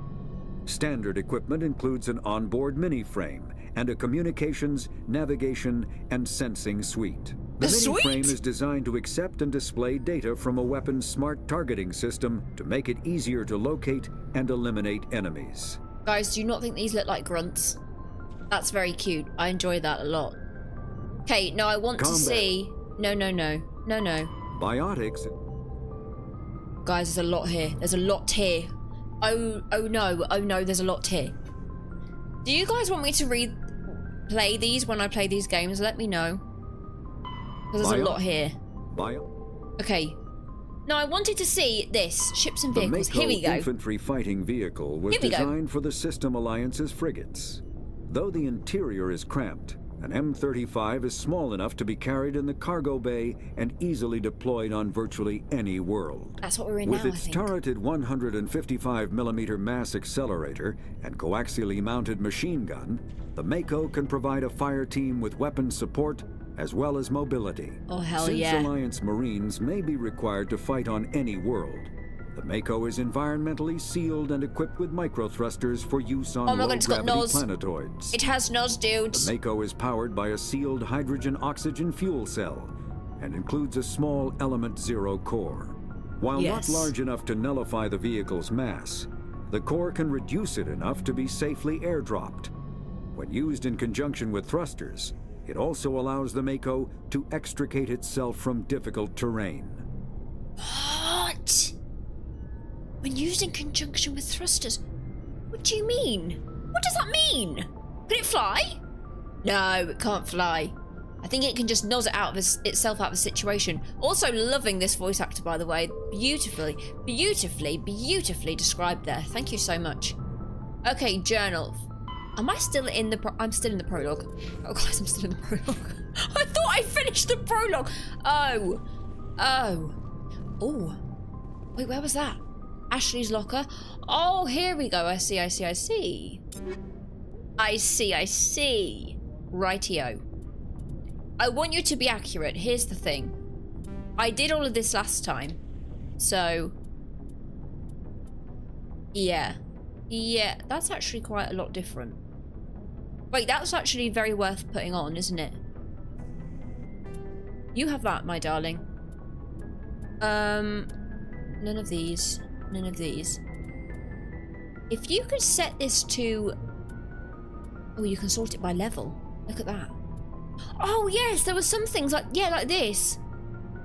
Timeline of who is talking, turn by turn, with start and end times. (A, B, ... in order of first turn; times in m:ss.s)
0:00.7-0:15.8 A
0:07.6-0:08.4 B
0:16.1-0:17.8 B
0:18.5-0:20.4 B
0:21.3-0:24.3 B
0:22.0-0:22.6 A
0:24.5-0:25.3 A
0:26.8-0:31.3 B
0:32.4-0:36.4 B
0:37.7-0:38.6 B
0:37.8-0:38.2 A
0:38.9-0:39.2 A
0:39.8-0:40.2 B
0:40.9-0:43.7 B
0:42.7-1:18.2 A
0:45.1-0:45.5 B
0:56.4-0:57.5 B
1:07.9-1:08.7 B
1:16.5-1:17.4 B
1:18.1-1:19.3 B
1:19.1-1:32.5 A
1:26.4-1:26.9 B
1:33.1-1:39.8 A
1:40.6-1:41.7 B
1:43.0-1:44.8 B
1:45.5-1:48.8 B
1:49.4-2:00.2 B
2:00.8-2:01.8 B
2:02.4-2:08.8 B
2:09.4-2:10.0 B
2:10.6-2:11.0 B
2:11.8-2:16.4 B
2:17.6-2:20.2 B
2:21.4-2:23.3 B
2:24.2-2:25.6 B
2:26.2-2:26.7 B
2:29.1-2:29.6 B
2:30.1-2:32.2 B
2:33.3-2:35.6 B
2:37.7-2:38.8 B
2:40.2-2:40.9 B
2:41.6-2:43.4 B
2:44.9-2:46.6 B
2:48.0-2:49.9 B
2:50.8-2:53.2 B